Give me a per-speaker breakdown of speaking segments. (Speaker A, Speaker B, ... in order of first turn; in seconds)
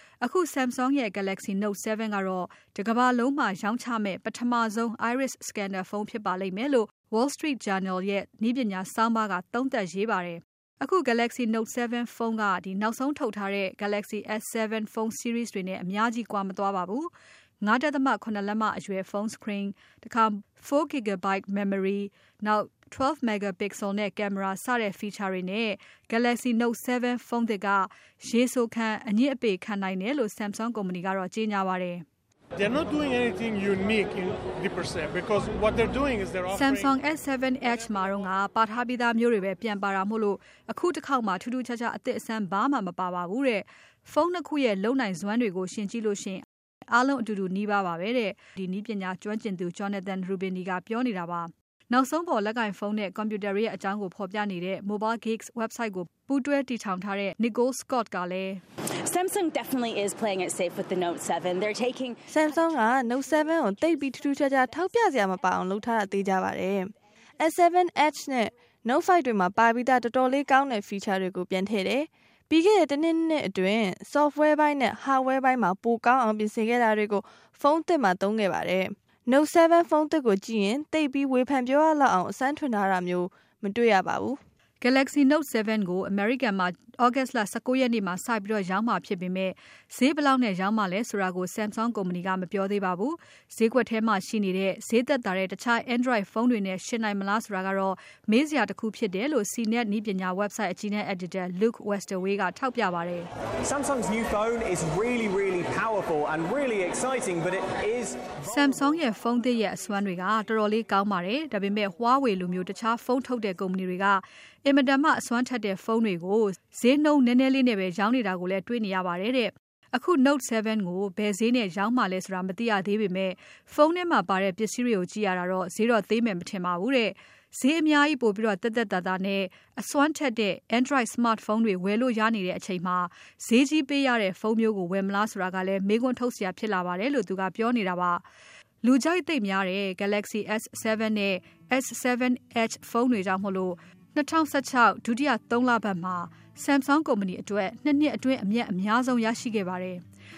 Speaker A: 0.2-32.0, 36.5-58.6, 84.8-103.3, 108.5-138.2, 138.8-150.0
Speaker B: 32.6-37.0
Speaker C: 59.1-62.2
Speaker D: 62.3-84.4
Speaker E: 103.6-108.8